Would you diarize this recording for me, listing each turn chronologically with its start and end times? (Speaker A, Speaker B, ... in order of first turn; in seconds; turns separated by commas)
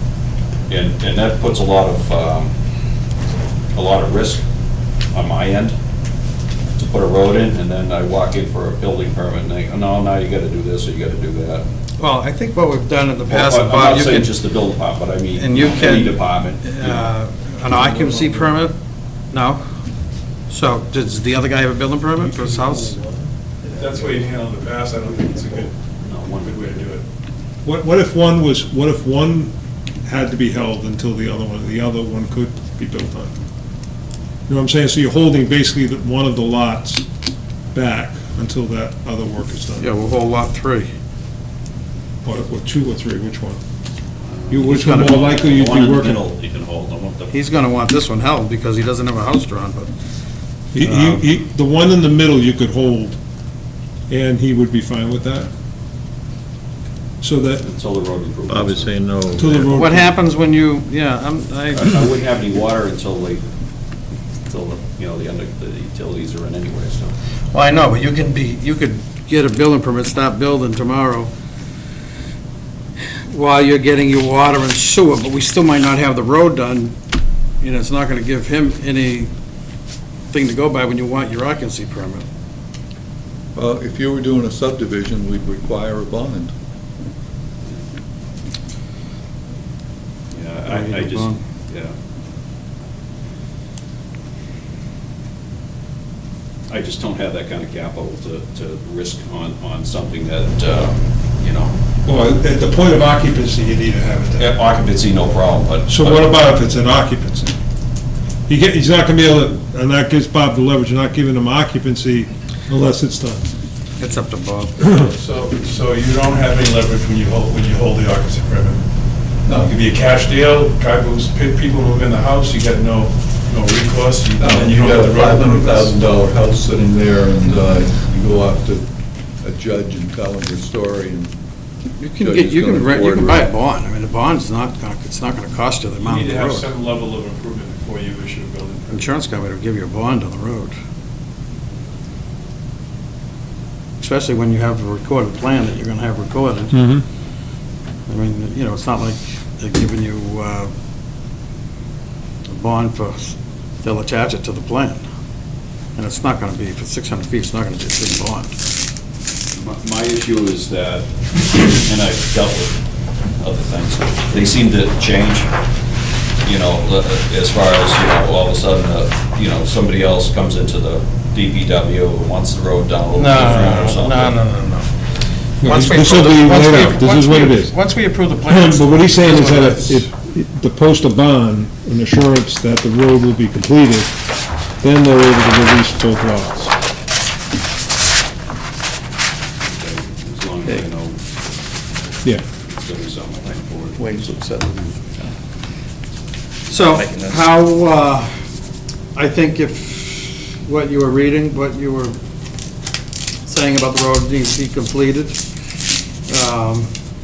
Speaker A: 0.7-2.5, Speaker A: 3.7-4.4, Speaker A: 5.1-5.8, Speaker A: 6.8-11.7, Speaker B: 12.0-14.3, Speaker A: 13.3-17.1, Speaker B: 15.3-18.8, Speaker C: 17.7-18.5, Speaker B: 19.3-19.6, Speaker B: 20.5-22.9, Speaker C: 22.1-23.3, Speaker D: 23.7-27.0, Speaker A: 25.9-26.9, Speaker C: 27.6-33.3, Speaker C: 34.5-37.0, Speaker C: 37.7-39.9, Speaker B: 39.8-40.9, Speaker C: 42.2-43.6, Speaker A: 44.2-47.4, Speaker C: 44.5-46.2, Speaker B: 44.6-45.2, Speaker B: 47.3-49.9, Speaker C: 50.7-53.2, Speaker B: 50.8-51.2, Speaker C: 54.1-55.5, Speaker C: 57.2-57.6, Speaker A: 57.6-59.6, Speaker E: 58.5-59.7, Speaker C: 59.4-60.1, Speaker B: 59.7-61.9, Speaker A: 61.7-63.4, Speaker A: 64.5-67.1, Speaker B: 67.5-71.3, Speaker B: 73.3-76.9, Speaker B: 77.6-79.3, Speaker B: 80.3-82.2, Speaker F: 83.5-86.5, Speaker A: 90.3-91.9, Speaker B: 90.7-91.4, Speaker A: 96.7-101.8, Speaker C: 102.0-104.5, Speaker A: 104.4-106.3, Speaker C: 105.9-107.5, Speaker C: 108.5-113.5, Speaker B: 114.0-114.8, Speaker D: 114.9-118.8, Speaker F: 119.5-119.7, Speaker D: 119.6-126.2, Speaker F: 124.4-128.9, Speaker F: 129.4-131.3, Speaker B: 132.0-136.7, Speaker F: 132.2-133.5, Speaker D: 136.0-139.1, Speaker B: 138.9-140.7, Speaker B: 144.0-146.8, Speaker C: 146.7-147.0, Speaker B: 148.1-150.7, Speaker B: 152.5-155.0, Speaker B: 155.9-158.5, Speaker A: 159.5-162.8, Speaker A: 163.4-165.5, Speaker A: 166.4-174.4, Speaker B: 173.1-174.9, Speaker C: 175.6-177.7, Speaker B: 175.6-180.0, Speaker C: 178.4-184.1, Speaker C: 184.8-186.7, Speaker A: 189.6-191.2, Speaker A: 192.6-194.0, Speaker E: 194.0-195.3, Speaker B: 196.7-198.3, Speaker E: 196.8-197.4, Speaker B: 199.1-202.2, Speaker B: 203.4-205.4, Speaker B: 206.3-206.9